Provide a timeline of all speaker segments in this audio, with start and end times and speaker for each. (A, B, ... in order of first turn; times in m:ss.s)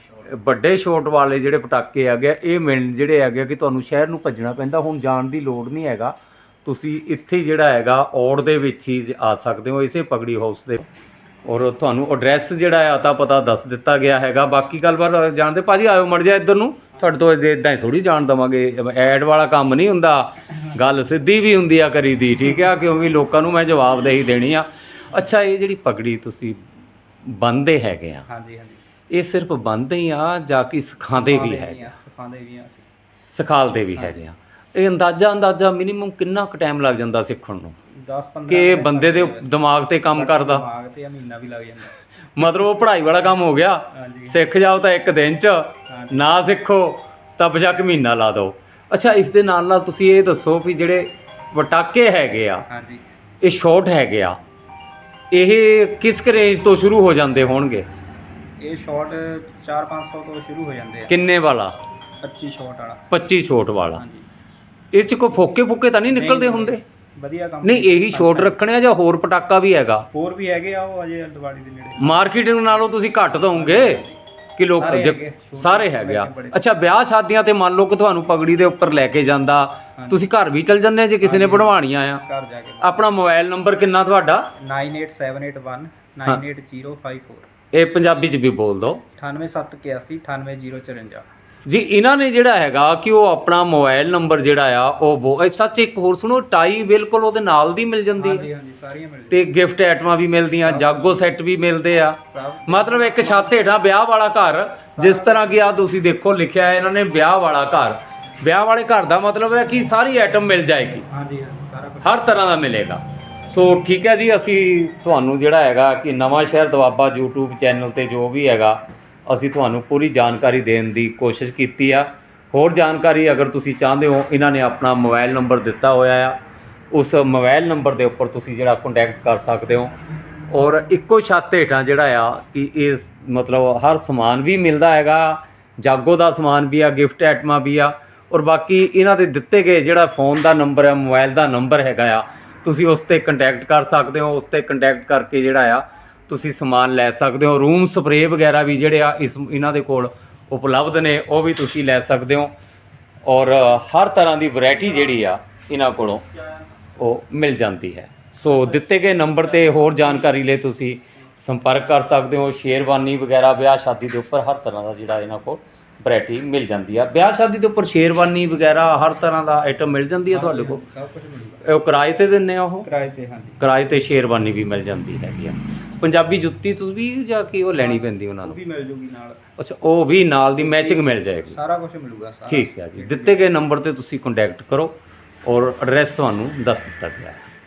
0:00.2-0:10.9 A
0:11.4-0:26.6 A
0:27.2-0:28.3 A
0:28.3-0:28.8 B
0:29.1-0:31.9 A
0:31.2-0:32.9 B
0:33.3-0:37.8 A
0:38.0-0:39.5 B
0:38.5-0:40.6 A
0:40.1-0:41.9 B
0:42.4-0:52.7 A
0:43.9-0:44.4 B
0:45.9-0:46.2 B
0:52.7-0:53.0 B
0:53.4-0:54.4 A
0:55.3-0:57.9 A
0:58.6-1:01.1 B
1:01.1-1:01.8 A
1:02.2-1:03.0 B
1:03.1-1:04.0 A
1:04.0-1:04.2 B
1:04.9-1:06.8 A
1:06.1-1:08.6 B
1:07.6-1:10.1 A
1:10.1-1:12.2 B
1:12.0-1:14.0 A
1:13.5-1:14.2 B
1:14.6-1:22.2 A
1:14.8-1:16.6 B
1:20.0-1:20.2 B
1:21.2-1:23.1 B
1:22.8-1:24.5 A
1:24.6-1:27.5 B
1:27.7-1:29.0 A
1:29.2-1:31.3 B
1:31.7-1:38.4 A
1:38.2-1:39.4 B
1:39.3-1:51.1 A
1:40.6-1:41.3 B
1:42.2-1:43.6 B
1:45.0-1:45.5 B
1:51.1-1:52.4 B
1:52.0-2:06.4 A
2:06.9-2:09.9 A
2:10.5-2:32.5 A
2:33.3-2:36.2 A
2:37.0-2:50.8 A
2:38.5-2:40.3 B
2:50.3-2:51.6 B
2:51.6-2:52.9 A
2:52.8-2:53.6 B
2:53.6-2:58.6 A
2:57.7-2:59.4 B
2:59.6-3:01.6 A
3:00.6-3:03.4 B
3:02.5-3:07.4 A